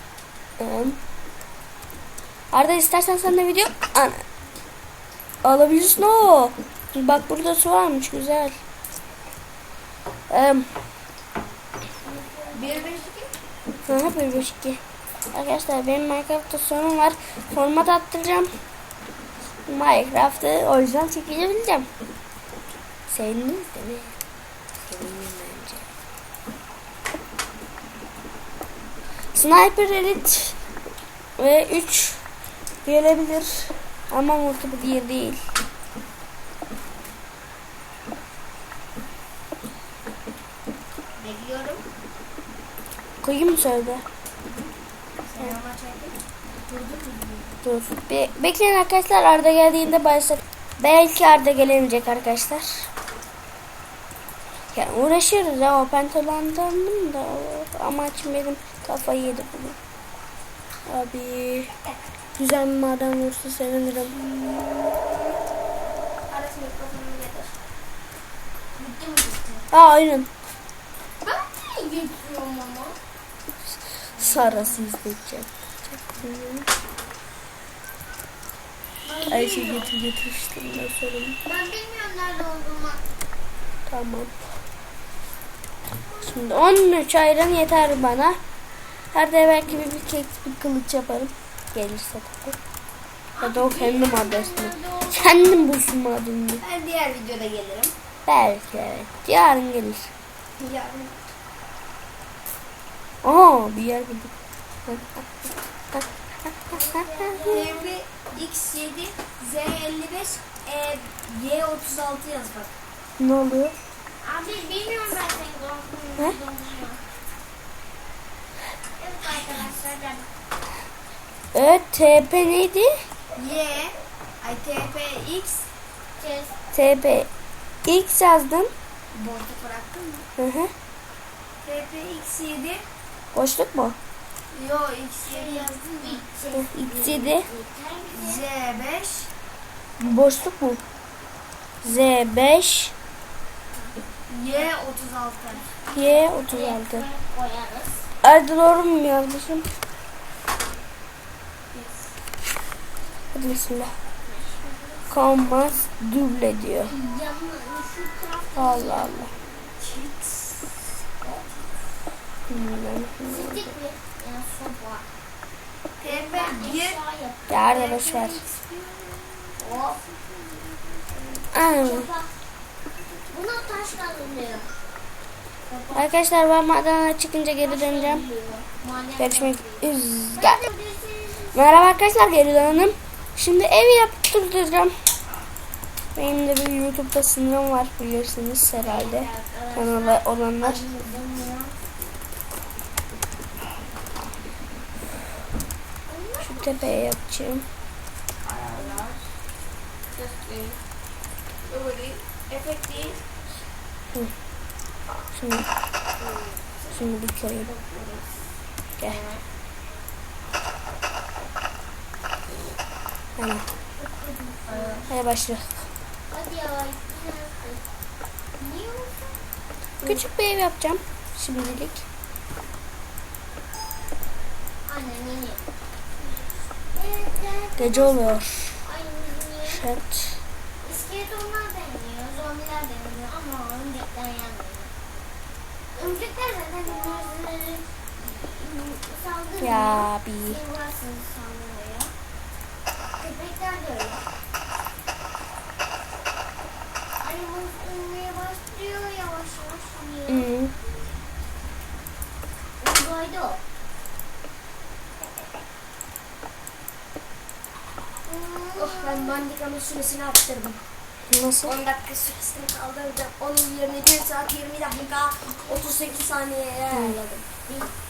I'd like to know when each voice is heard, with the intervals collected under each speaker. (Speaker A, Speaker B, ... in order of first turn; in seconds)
Speaker A: 0.6-1.0, 2.5-4.2, 5.4-8.6, 10.3-10.7, 13.9-14.8, 15.3-18.5, 19.7-21.9, 23.1-24.1, 24.8-25.8, 29.3-30.6, 31.4-32.2, 32.8-35.4, 43.2-44.0, 47.6-52.9, 54.7-59.8, 60.9-61.7, 62.4-64.1, 69.7-70.3, 74.0-76.7, 79.3-81.4, 83.9-84.3, 86.2-88.4, 89.1-92.6, 93.4-96.6, 98.2-100.1, 103.2-104.3, 104.9-105.2, 113.2-113.7, 121.5-122.9, 126.7-127.3, 127.8-128.7, 130.4-130.7, 133.3-133.9, 136.6-137.5, 140.0-140.8, 141.8-142.9, 145.9-147.1, 148.2-149.7, 153.3-153.9, 155.1-156.9, 158.6-159.3, 162.5-163.7, 167.5-168.4, 171.5-172.1, 175.9-178.2, 179.2-180.6, 181.5-184.9, 186.1-190.8, 196.4-197.7, 205.3-205.7, 206.9-207.7, 213.4-213.7, 215.1-215.8, 220.0-222.0, 227.8-228.8, 229.6-230.4, 239.6-240.6, 250.3-250.7, 261.3-261.8, 266.9-267.2
Speaker B: 12.0-13.0, 68.8-69.7, 71.2-73.0, 74.2-74.8, 79.0-79.9, 81.4-83.0, 93.3-95.7, 106.7-108.0, 114.2-117.1, 119.0-120.3, 126.2-126.5, 135.2-138.4, 145.5-148.1, 154.2-155.1, 156.8-159.3, 161.2-161.7, 163.2-165.1, 166.0-167.8, 169.6-171.2, 171.7-172.3, 173.3-174.7, 175.7-176.1, 177.6-179.8, 180.3-181.9, 188.8-191.8, 196.1-197.0, 209.0-209.4, 214.0-215.1, 216.3-217.8, 218.6-219.4, 224.8-225.7, 226.9-229.9, 230.8-234.9, 235.9-242.1, 243.2-244.3, 247.2-250.5, 252.8-253.6, 258.2-259.4, 265.5-266.2, 266.9-267.9
Speaker C: 12.5-13.3, 41.2-41.8, 45.3-46.2, 46.7-47.5, 64.1-65.3, 66.3-67.5, 96.6-97.9, 100.6-101.2, 107.4-112.7, 123.3-125.7, 129.1-130.2, 131.6-132.8, 134.5-136.2, 138.1-139.3, 144.3-145.7, 151.7-152.1, 159.8-160.7, 166.0-167.0, 167.6-170.0, 198.4-199.2, 200.1-200.8, 201.6-203.2, 206.8-208.4, 214.7-215.1, 258.8-260.8, 261.6-267.2